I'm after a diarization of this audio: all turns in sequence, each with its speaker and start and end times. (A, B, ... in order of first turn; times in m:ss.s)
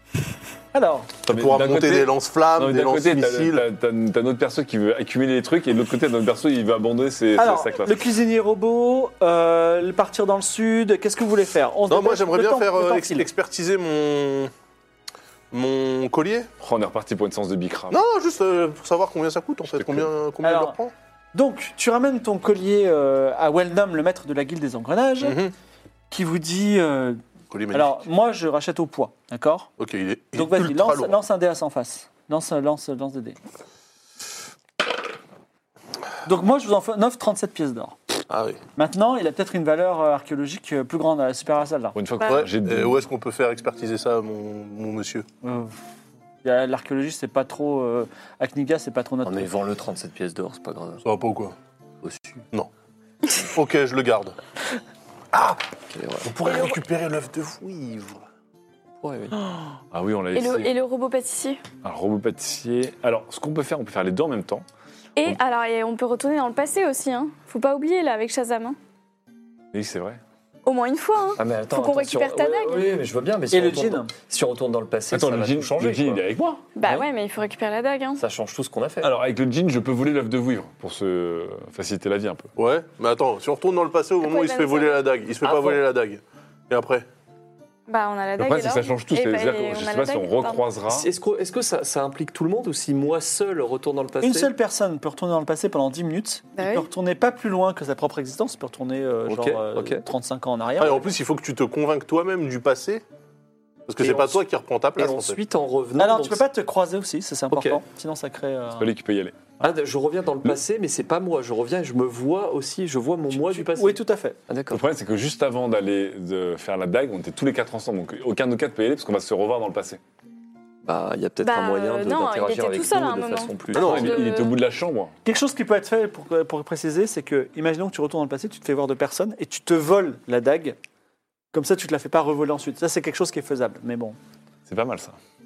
0:00.7-0:01.1 A
0:01.3-0:03.7 B
0:01.3-0:08.1 C
0:07.4-0:13.3 A
0:11.9-0:14.5 B
0:15.5-0:16.5 B
0:16.6-0:18.0 C
0:17.9-0:20.9 B
0:19.8-0:20.1 C
0:20.4-0:20.8 A
0:21.3-0:25.4 A
0:25.2-0:25.5 B
0:26.1-0:27.2 A
0:27.5-0:28.0 B
0:27.7-0:29.7 A
0:29.8-0:31.2 B
0:30.4-0:33.4 A
0:36.2-0:38.0 A
0:38.3-0:38.6 B
0:38.8-0:42.0 A
0:42.0-0:43.0 C
0:42.3-0:45.3 B
0:45.4-0:45.8 A
0:46.4-0:49.5 A
0:49.2-0:51.0 D
0:51.0-0:51.6 B
0:52.0-0:52.4 D
0:53.5-0:54.4 B
0:55.3-0:55.6 B
0:55.9-0:56.4 D
0:56.2-0:58.2 B
0:59.0-0:59.4 D
0:59.9-1:00.7 C
1:00.4-1:01.6 E
1:01.8-1:04.6 C
1:05.2-1:08.8 E
1:09.7-1:10.2 C
1:10.7-1:13.0 E
1:11.4-1:16.2 D
1:13.5-1:14.1 A
1:15.1-1:16.7 C
1:16.8-1:18.2 E
1:16.8-1:17.1 D
1:18.2-1:19.1 D
1:19.0-1:22.5 C
1:22.6-1:27.1 B
1:24.2-1:25.1 E
1:25.4-1:25.8 D
1:27.9-1:30.6 E
1:28.4-1:31.1 C
1:30.9-1:34.5 D
1:34.2-1:41.1 A
1:36.6-1:36.9 E
1:39.3-1:40.0 D
1:40.8-1:43.0 B
1:43.9-1:45.4 B
1:44.0-1:44.4 D
1:45.0-1:46.4 D
1:46.0-1:48.9 A
1:47.5-1:47.8 D
1:48.8-1:49.5 C
1:49.6-1:54.9 D
1:53.3-1:54.4 A
1:54.7-2:00.0 C
2:00.8-2:04.2 D
2:01.4-2:04.5 E
2:03.7-2:04.1 B
2:03.8-2:05.1 C
2:05.2-2:10.8 A
2:11.5-2:14.2 A
2:14.7-2:15.2 C